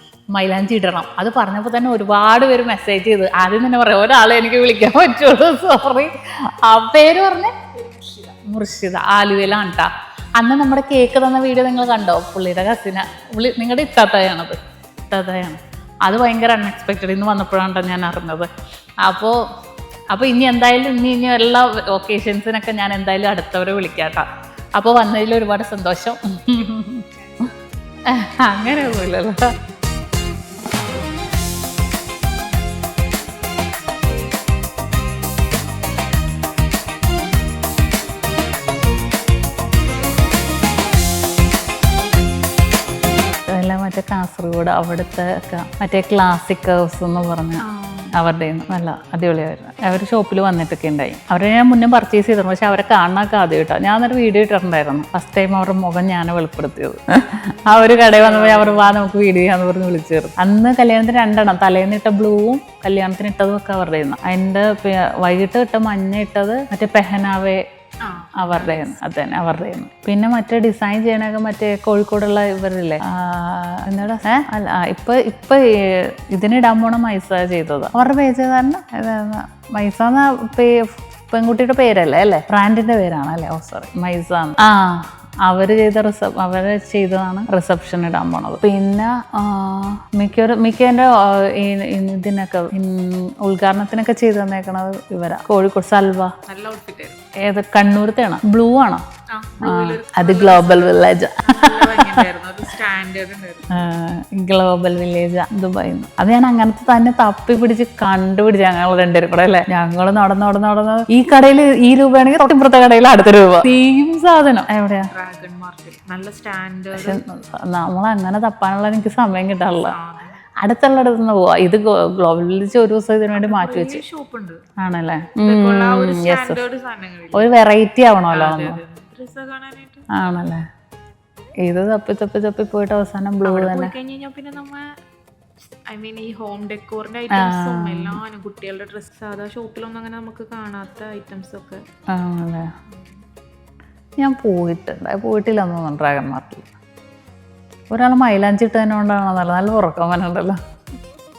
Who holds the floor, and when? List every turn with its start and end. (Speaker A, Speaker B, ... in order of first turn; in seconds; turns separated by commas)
Speaker A: 0.3-7.5, Speaker B: 7.7-8.4, Speaker A: 8.4-14.6, Speaker A: 15.1-18.5, Speaker A: 19.1-19.4, Speaker A: 20.1-27.1, Speaker B: 26.5-27.6, Speaker A: 28.1-29.5, Speaker B: 28.4-29.1, Speaker A: 43.5-47.6, Speaker B: 47.6-48.1, Speaker A: 48.1-67.6, Speaker B: 57.3-59.0, Speaker B: 68.0-69.0, Speaker A: 68.4-96.3, Speaker B: 96.5-97.2, Speaker A: 97.4-99.0, Speaker B: 99.3-104.0, Speaker A: 99.6-102.3, Speaker A: 103.7-115.1, Speaker B: 115.1-117.2, Speaker A: 116.9-120.0, Speaker B: 119.7-120.4, Speaker A: 120.6-124.0, Speaker B: 123.3-124.6, Speaker A: 124.8-126.6, Speaker B: 125.4-127.5, Speaker A: 127.3-128.8, Speaker B: 128.3-130.1, Speaker A: 130.1-130.6, Speaker A: 131.6-133.9, Speaker B: 133.4-135.0, Speaker B: 135.9-141.8, Speaker A: 137.3-138.2, Speaker A: 142.1-142.7, Speaker A: 144.2-146.7, Speaker A: 147.9-150.6